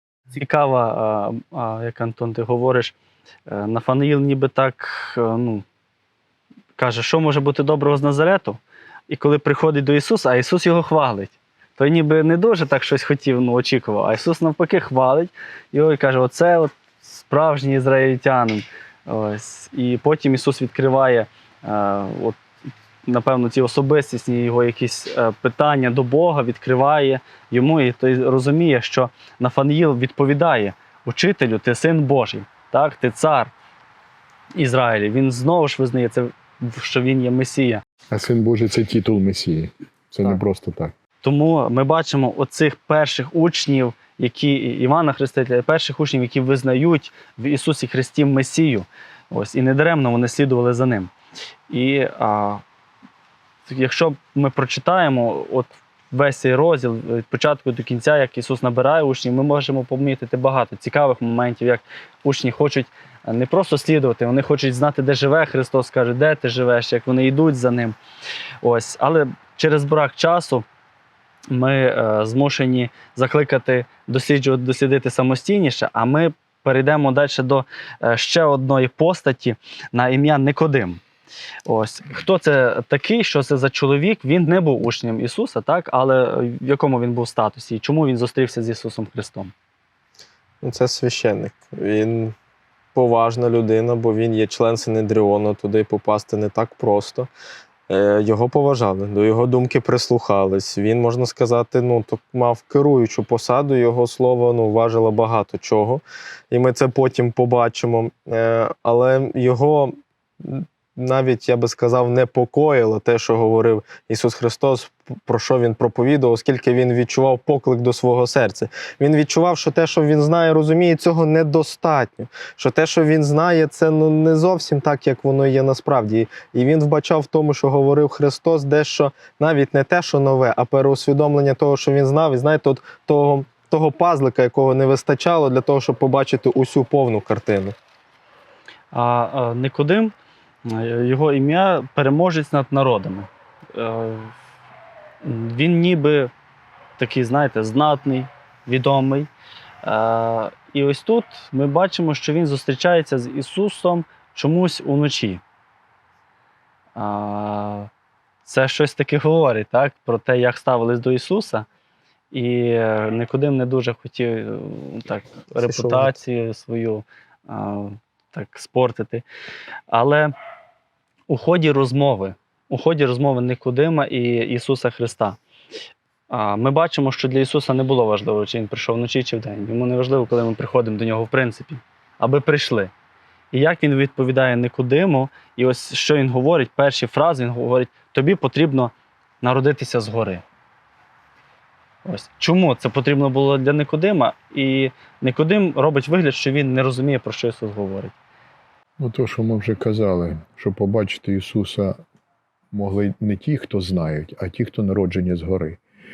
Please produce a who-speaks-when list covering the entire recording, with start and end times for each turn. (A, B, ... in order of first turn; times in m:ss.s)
0:00.3-0:03.0 A
0:03.5-0:05.6 A
0:06.8-0:22.4 A
0:23.0-0:33.5 A
0:34.6-0:37.8 A
0:38.1-0:40.9 B
0:41.2-0:51.1 A
0:51.7-0:52.6 A
0:53.7-1:08.0 A
1:08.6-1:10.6 A
1:11.5-1:21.0 A
1:21.7-1:29.5 A
1:30.6-1:32.3 C
1:33.0-1:37.3 C
1:37.9-2:17.8 C
2:18.9-2:20.1 A
2:20.7-2:24.4 A
2:25.2-2:26.3 A
2:27.0-2:29.3 A
2:29.8-2:35.4 A
2:37.0-2:37.9 A
2:38.4-2:41.7 A
2:42.3-2:49.2 A
2:45.6-2:46.1 C
2:49.9-2:50.3 A
2:51.3-2:55.4 A
2:56.3-3:02.9 A
3:03.5-3:10.4 A
3:12.0-3:18.2 A
3:19.0-3:22.0 B
3:22.7-3:25.8 B